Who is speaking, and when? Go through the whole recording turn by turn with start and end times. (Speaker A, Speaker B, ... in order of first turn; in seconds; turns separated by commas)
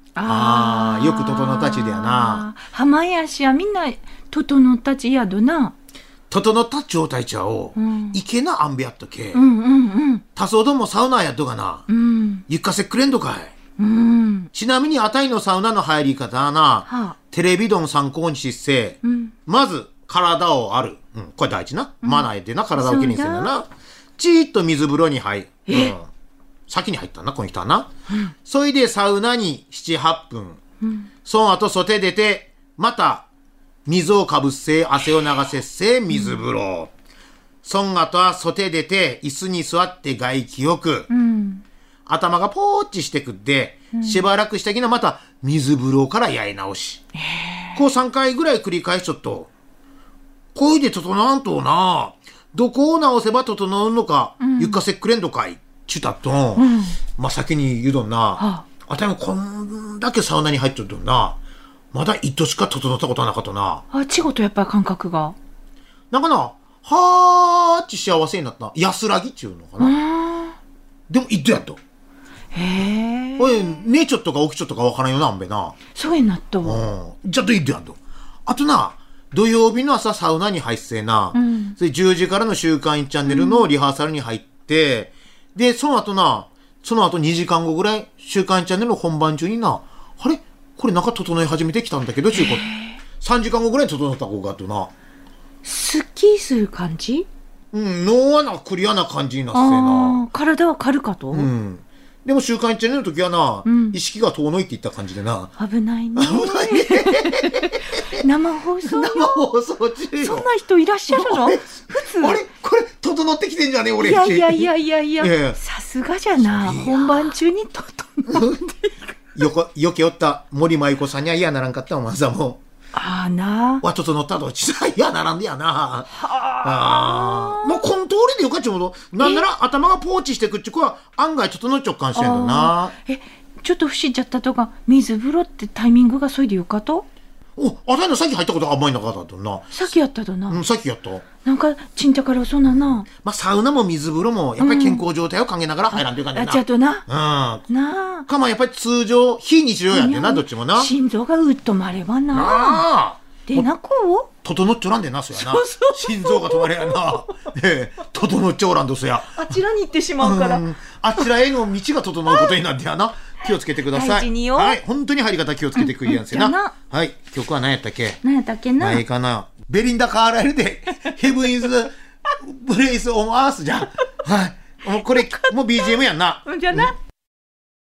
Speaker A: 0.1-5.7, Speaker B: 0.2-2.4, Speaker B: 6.3-9.4, Speaker A: 7.8-8.2, Speaker A: 9.3-10.2, Speaker B: 10.3-11.8, Speaker A: 11.9-12.4, Speaker B: 12.5-13.5, Speaker A: 13.8-14.5, Speaker B: 14.5-26.1, Speaker A: 16.9-17.1, Speaker A: 19.0-19.3, Speaker A: 22.0-23.5, Speaker A: 25.7-25.9, Speaker B: 26.7-27.9, Speaker B: 28.4-30.6, Speaker A: 30.8-31.1, Speaker B: 31.2-33.2, Speaker B: 33.9-36.9, Speaker A: 36.1-36.4, Speaker B: 37.6-41.1, Speaker A: 41.1-41.6, Speaker B: 42.1-47.0, Speaker A: 43.9-44.2, Speaker A: 47.1-47.8, Speaker B: 47.8-49.5, Speaker B: 50.5-56.6, Speaker A: 54.4-54.8, Speaker A: 56.5-57.0, Speaker B: 57.2-61.4, Speaker A: 58.4-58.6, Speaker B: 61.9-63.8, Speaker A: 63.9-65.3, Speaker B: 66.1-69.9, Speaker A: 69.8-70.5, Speaker B: 71.1-71.8, Speaker A: 72.5-73.7, Speaker B: 73.4-75.7, Speaker A: 75.9-76.8, Speaker B: 76.6-92.7, Speaker A: 81.3-81.8, Speaker A: 83.3-83.6, Speaker A: 92.3-93.0, Speaker B: 93.2-94.9, Speaker A: 95.6-97.3, Speaker B: 97.7-100.2, Speaker A: 99.5-101.5, Speaker B: 101.3-105.5, Speaker A: 103.6-104.0, Speaker A: 105.6-109.4, Speaker B: 106.2-108.2, Speaker B: 108.8-110.5, Speaker A: 110.2-112.4, Speaker B: 111.1-114.7, Speaker A: 114.0-118.9, Speaker B: 115.2-115.6, Speaker B: 116.4-117.3, Speaker B: 118.3-118.6, Speaker B: 119.3-122.6, Speaker A: 122.9-123.8, Speaker B: 123.8-132.9, Speaker A: 126.1-127.9, Speaker A: 129.2-129.4, Speaker A: 132.1-137.1, Speaker B: 137.6-139.8, Speaker A: 139.7-140.6, Speaker B: 140.5-141.2, Speaker A: 141.4-143.1, Speaker B: 142.7-147.7, Speaker A: 144.6-145.0, Speaker A: 145.9-147.1, Speaker A: 147.7-148.3, Speaker B: 148.3-150.9, Speaker A: 149.9-152.8, Speaker B: 152.3-153.7, Speaker A: 153.5-154.3, Speaker B: 154.4-159.5, Speaker A: 155.3-157.3, Speaker A: 159.3-160.6, Speaker B: 160.2-168.2, Speaker A: 163.9-164.8, Speaker A: 165.8-166.7, Speaker A: 168.2-169.0, Speaker B: 168.8-176.9, Speaker A: 175.1-175.5, Speaker A: 176.4-176.9